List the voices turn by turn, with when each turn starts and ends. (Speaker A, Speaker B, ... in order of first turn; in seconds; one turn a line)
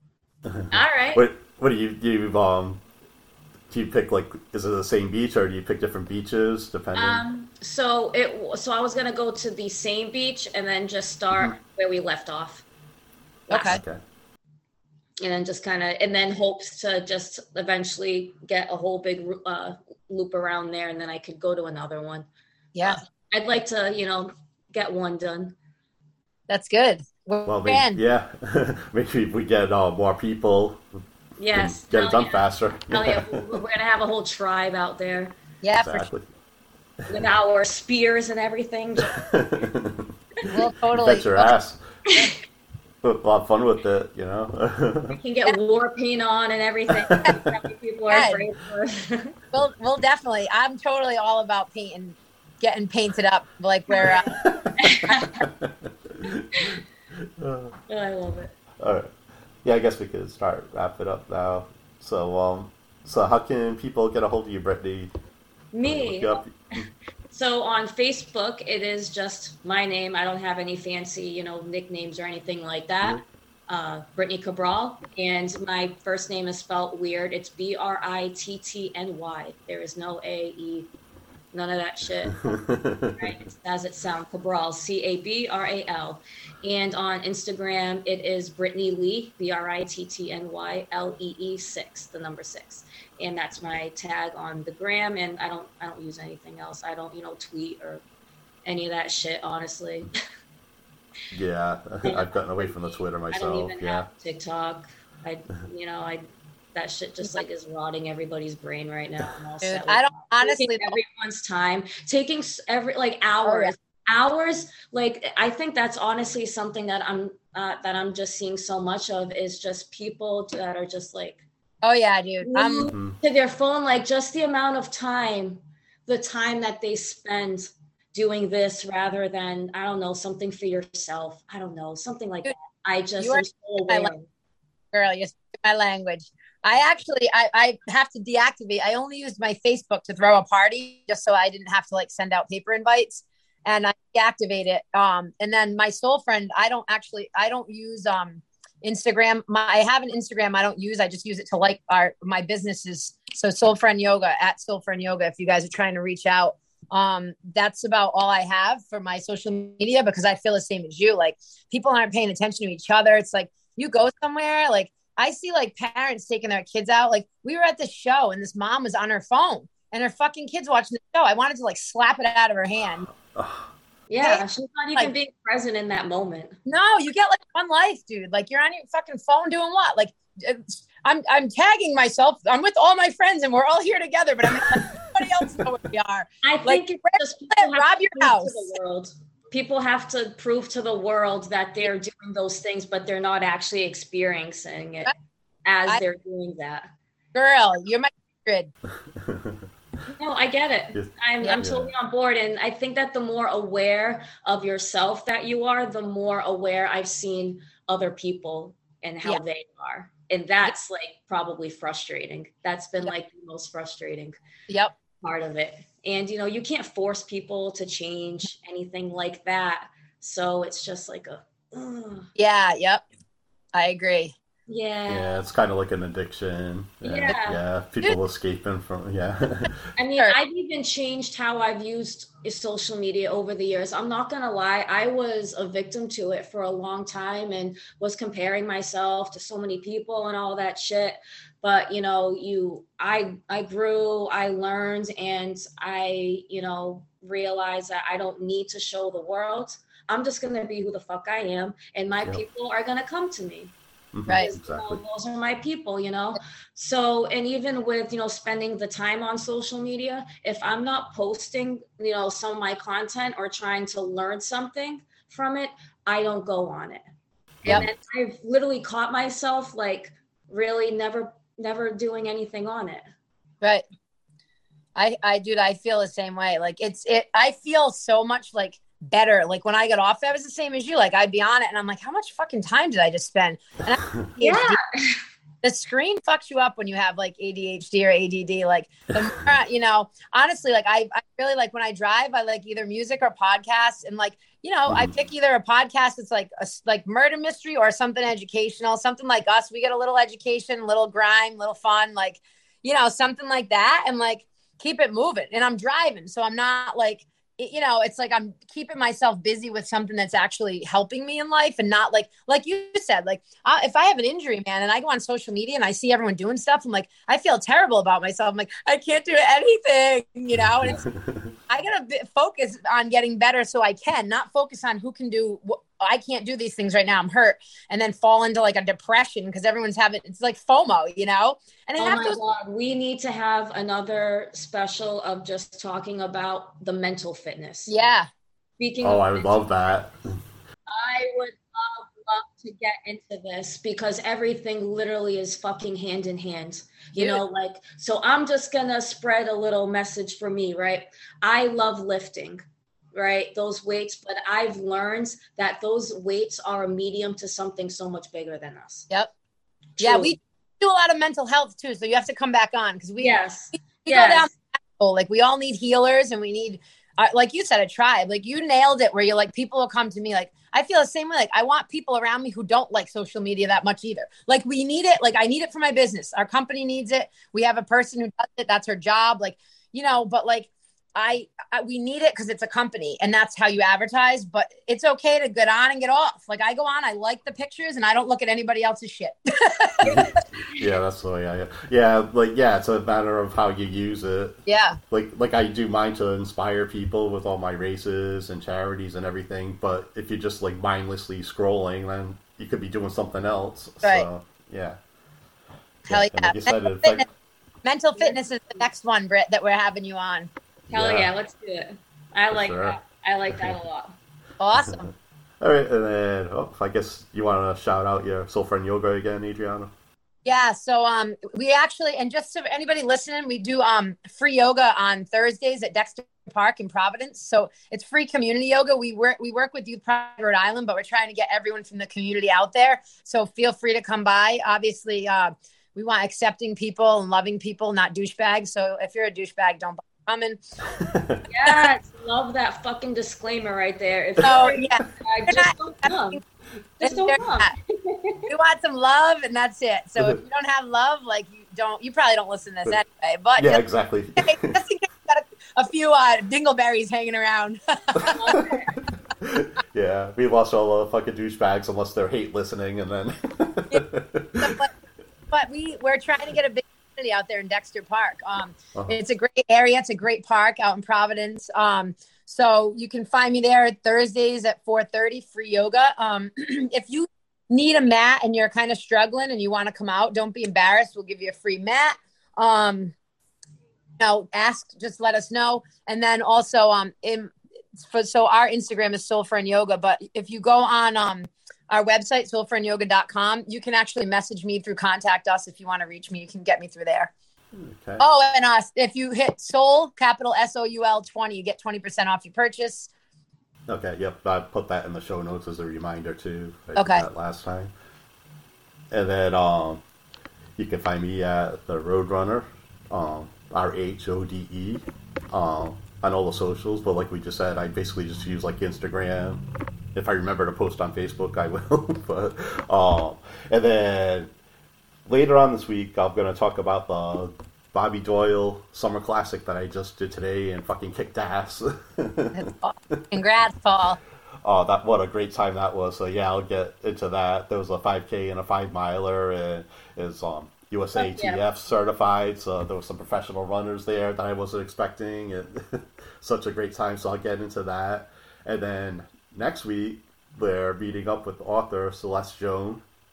Speaker A: 0.5-2.8
Speaker B: 0.7-1.2
Speaker A: 3.7-7.2
Speaker B: 7.0-12.7
Speaker B: 13.5-13.8
Speaker C: 13.5-13.8
Speaker A: 13.6-14.0
Speaker B: 15.2-22.3
Speaker C: 22.8-23.0
Speaker B: 22.8-25.6
Speaker C: 26.5-28.0
Speaker A: 27.5-30.9
Speaker B: 31.4-35.4
Speaker A: 31.5-33.4
Speaker C: 35.6-36.1
Speaker A: 35.8-36.3
Speaker B: 37.1-39.2
Speaker A: 39.1-41.8
Speaker C: 40.5-41.5
Speaker A: 43.0-45.2
Speaker B: 45.1-49.3
Speaker A: 47.0-47.4
Speaker C: 48.1-48.4
Speaker C: 49.5-54.3
Speaker A: 54.0-57.8
Speaker B: 54.8-55.5
Speaker B: 56.5-56.8
Speaker B: 57.9-58.5
Speaker A: 58.8-59.1
Speaker A: 59.6-65.1
Speaker B: 65.7-66.4
Speaker A: 65.8-66.8
Speaker B: 67.3-80.9
Speaker B: 81.5-82.6
Speaker A: 82.4-83.3
Speaker B: 83.2-98.0
Speaker B: 98.7-100.1
Speaker A: 101.3-104.1
Speaker B: 102.0-121.4
Speaker C: 109.6-111.0
Speaker C: 113.5-113.7
Speaker C: 121.8-122.9
Speaker B: 122.4-134.3
Speaker A: 122.9-123.2
Speaker C: 133.2-134.1
Speaker C: 134.9-173.1
Speaker A: 173.2-173.7
Speaker B: 174.1-176.6
Speaker C: 176.7-188.8
Speaker A: 184.6-185.7
Speaker B: 186.4-195.1
Speaker B: 195.7-196.9
Speaker C: 197.3-198.7
Speaker A: 199.1-199.7
Speaker B: 200.2-214.4
Speaker A: 200.9-201.9
Speaker C: 214.7-214.9
Speaker B: 215.2-222.3
Speaker C: 222.4-223.0
Speaker C: 223.7-224.3
Speaker B: 224.7-225.4
Speaker A: 225.1-229.8
Speaker B: 227.0-227.6
Speaker B: 230.0-253.7
Speaker A: 254.1-255.0
Speaker B: 254.3-267.0
Speaker B: 267.7-273.1
Speaker C: 274.9-284.8
Speaker B: 284.4-285.2
Speaker C: 285.6-321.0
Speaker A: 294.9-295.1
Speaker A: 320.8-321.5
Speaker C: 321.7-332.4
Speaker B: 332.0-337.9
Speaker C: 337.9-338.3
Speaker B: 338.8-339.7
Speaker A: 339.0-340.2
Speaker B: 340.9-352.6
Speaker B: 353.1-359.1
Speaker B: 360.0-360.4
Speaker C: 360.0-363.4
Speaker B: 363.2-364.5
Speaker C: 364.0-390.1
Speaker B: 390.0-390.8
Speaker A: 390.1-394.6
Speaker C: 394.7-395.0
Speaker A: 395.1-405.0
Speaker A: 406.1-407.3
Speaker C: 406.1-407.2
Speaker C: 407.8-410.5
Speaker B: 408.2-408.8
Speaker A: 410.9-411.3
Speaker B: 410.9-414.2
Speaker A: 412.5-413.0
Speaker C: 414.6-415.1
Speaker A: 414.8-419.9
Speaker C: 420.4-440.6
Speaker A: 441.0-441.4
Speaker B: 441.5-446.4
Speaker C: 444.4-446.4
Speaker A: 444.5-444.8
Speaker B: 447.0-448.5
Speaker C: 447.0-447.7
Speaker C: 448.5-453.9
Speaker A: 453.6-454.8
Speaker C: 454.4-458.4
Speaker B: 458.2-459.0
Speaker A: 459.4-464.9
Speaker C: 464.6-464.9
Speaker C: 465.5-483.1
Speaker C: 484.2-497.3
Speaker A: 497.7-498.3
Speaker C: 498.2-503.1
Speaker A: 503.9-507.9
Speaker C: 507.0-507.2
Speaker A: 509.1-510.0
Speaker A: 510.8-519.6
Speaker A: 520.1-524.5
Speaker A: 525.3-532.6
Speaker C: 532.5-534.2
Speaker A: 534.6-553.0
Speaker B: 541.2-541.6